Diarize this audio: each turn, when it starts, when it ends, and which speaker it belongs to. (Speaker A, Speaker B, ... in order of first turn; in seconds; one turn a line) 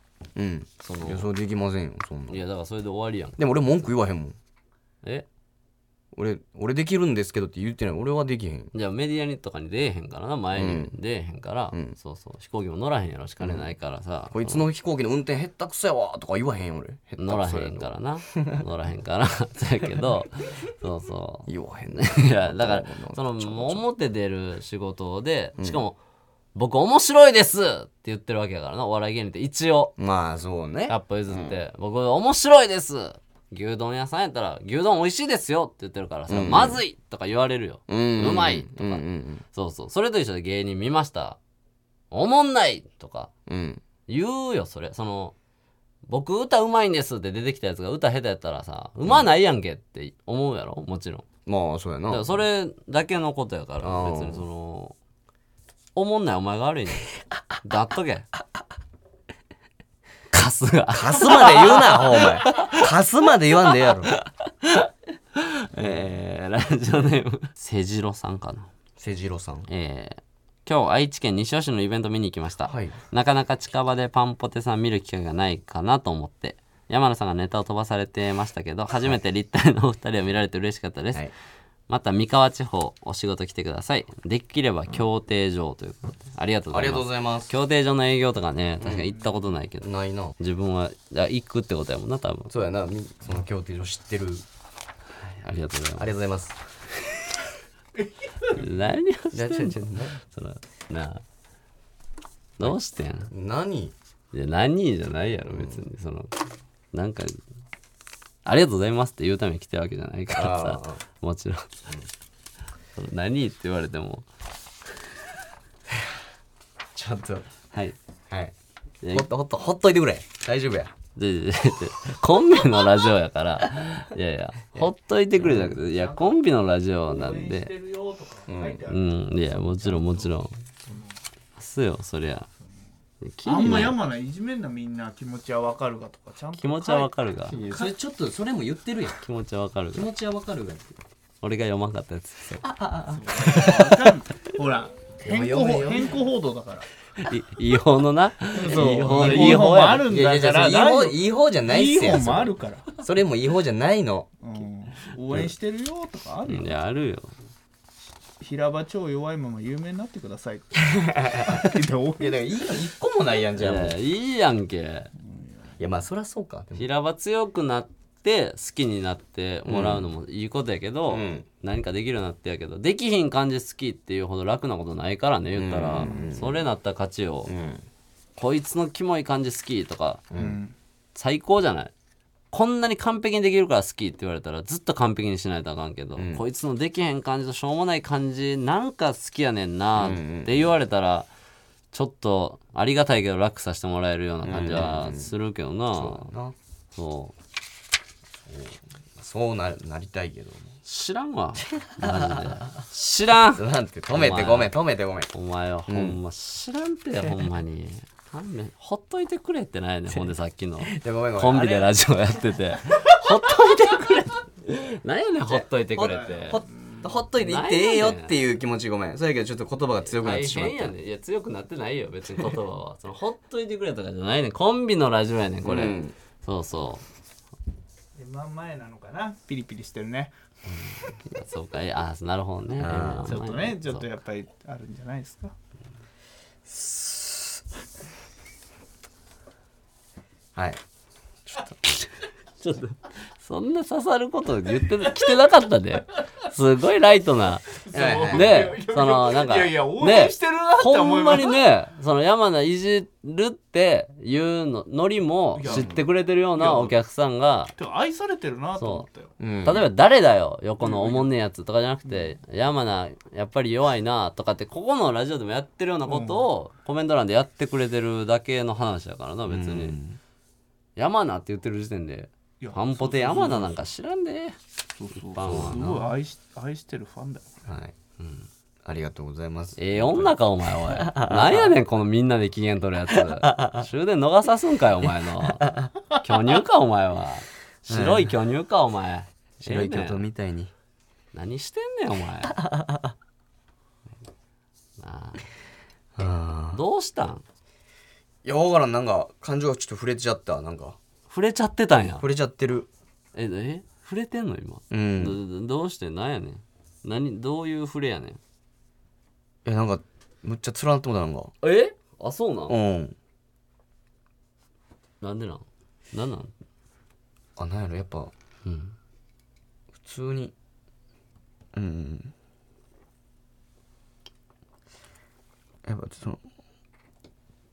Speaker A: 0.3-2.4
Speaker B: 0.8-1.3
Speaker B: 2.3-3.4
Speaker A: 3.4-4.4
Speaker A: 6.1-8.7
Speaker B: 8.7-14.7
Speaker A: 10.6-10.9
Speaker A: 13.4-13.7
Speaker A: 14.3-18.6
Speaker B: 17.2-26.0
Speaker A: 21.5-23.9
Speaker B: 26.6-29.9
Speaker A: 30.0-31.6
Speaker B: 30.9-41.4
Speaker A: 36.3-36.8
Speaker A: 37.9-39.4
Speaker B: 42.1-43.3
Speaker A: 43.5-43.8
Speaker B: 44.1-45.4
Speaker B: 46.1-51.3
Speaker A: 51.5-52.4
Speaker B: 52.1-55.0
Speaker A: 53.8-54.4
Speaker B: 56.0-57.1
Speaker B: 57.6-58.3
Speaker B: 60.3-62.9
Speaker A: 60.9-64.1
Speaker B: 64.1-68.7
Speaker A: 69.0-69.7
Speaker B: 69.7-81.3
Speaker A: 72.7-73.0
Speaker B: 81.9-89.9
Speaker A: 86.7-87.5
Speaker A: 88.8-89.1
Speaker A: 89.8-90.4
Speaker B: 90.4-92.5
Speaker A: 92.5-94.5
Speaker B: 95.4-96.1
Speaker A: 96.0-96.6
Speaker B: 98.5-101.2
Speaker A: 99.3-100.2
Speaker B: 102.6-103.3
Speaker A: 103.3-104.0
Speaker B: 104.3-106.3
Speaker A: 105.5-105.8
Speaker B: 106.9-107.4
Speaker B: 108.5-111.9
Speaker A: 110.3-111.0
Speaker B: 113.0-114.3
Speaker A: 117.0-117.5
Speaker B: 119.0-119.3
Speaker A: 119.1-120.9
Speaker B: 121.2-127.7
Speaker A: 124.8-125.8
Speaker C: 125.9-126.4
Speaker C: 127.1-131.2
Speaker A: 128.5-128.8
Speaker B: 128.9-130.5
Speaker B: 131.6-132.5
Speaker B: 133.2-134.0
Speaker C: 133.4-137.1
Speaker B: 136.6-137.6
Speaker A: 137.5-139.2
Speaker B: 139.2-140.1
Speaker A: 139.9-140.9
Speaker B: 141.4-142.7
Speaker A: 142.6-144.1
Speaker C: 143.1-146.9
Speaker A: 145.2-146.2
Speaker B: 147.2-150.1
Speaker C: 148.6-153.0
Speaker A: 148.6-154.3
Speaker C: 154.4-156.8
Speaker B: 156.5-157.3
Speaker C: 158.4-162.5
Speaker A: 160.9-161.6
Speaker A: 162.2-164.0
Speaker B: 163.6-165.1
Speaker C: 165.3-165.7
Speaker A: 165.8-166.9
Speaker B: 166.8-177.5
Speaker A: 169.7-170.1
Speaker A: 171.1-171.5
Speaker A: 175.6-176.6
Speaker A: 177.5-177.9
Speaker B: 178.4-180.2
Speaker A: 180.3-180.6
Speaker C: 180.4-180.7
Speaker B: 181.2-181.9
Speaker B: 182.5-191.3
Speaker A: 186.2-186.4
Speaker A: 190.0-190.7
Speaker B: 191.9-196.3
Speaker A: 194.4-195.3
Speaker A: 195.9-196.6
Speaker B: 196.9-197.3
Speaker A: 198.5-200.8
Speaker B: 200.8-204.8
Speaker A: 201.7-202.7
Speaker A: 203.5-205.3
Speaker B: 205.3-216.6
Speaker A: 205.9-206.2
Speaker A: 210.1-211.9
Speaker A: 215.5-220.9
Speaker C: 216.2-217.1
Speaker B: 217.4-218.4
Speaker B: 220.1-227.1
Speaker A: 225.6-226.2
Speaker C: 228.2-230.3
Speaker B: 231.2-234.1
Speaker A: 232.8-233.3
Speaker C: 233.2-235.5
Speaker A: 236.7-237.6
Speaker A: 240.6-240.8
Speaker B: 242.6-247.8
Speaker C: 247.8-251.6
Speaker A: 247.9-248.7
Speaker B: 248.3-257.7
Speaker C: 255.6-256.0
Speaker A: 255.7-256.1
Speaker C: 256.5-257.0
Speaker C: 257.8-259.3
Speaker B: 258.8-259.1
Speaker A: 259.4-259.9
Speaker B: 259.6-270.0
Speaker C: 260.8-261.3
Speaker C: 262.1-262.4
Speaker C: 266.1-266.5
Speaker A: 269.5-270.2
Speaker B: 271.0-274.6
Speaker C: 272.6-273.8
Speaker C: 275.0-277.5
Speaker B: 275.2-275.9
Speaker A: 275.4-276.1
Speaker A: 277.6-277.9
Speaker B: 278.2-278.5
Speaker A: 278.9-281.8
Speaker B: 279.8-290.2
Speaker A: 283.1-283.8
Speaker A: 285.4-285.9
Speaker A: 287.9-288.3
Speaker A: 289.6-290.7
Speaker B: 291.3-292.6
Speaker A: 292.7-293.0
Speaker B: 295.0-295.4
Speaker A: 296.1-296.8
Speaker B: 296.7-297.4
Speaker A: 298.4-301.0
Speaker B: 301.3-302.2
Speaker A: 302.2-302.9
Speaker B: 303.3-308.4
Speaker A: 304.9-305.4
Speaker A: 309.6-311.5
Speaker B: 311.6-312.8
Speaker A: 312.7-313.2
Speaker B: 315.2-316.5
Speaker A: 317.6-318.3
Speaker B: 318.6-318.9
Speaker A: 320.0-320.5
Speaker A: 321.7-322.3
Speaker A: 325.9-326.4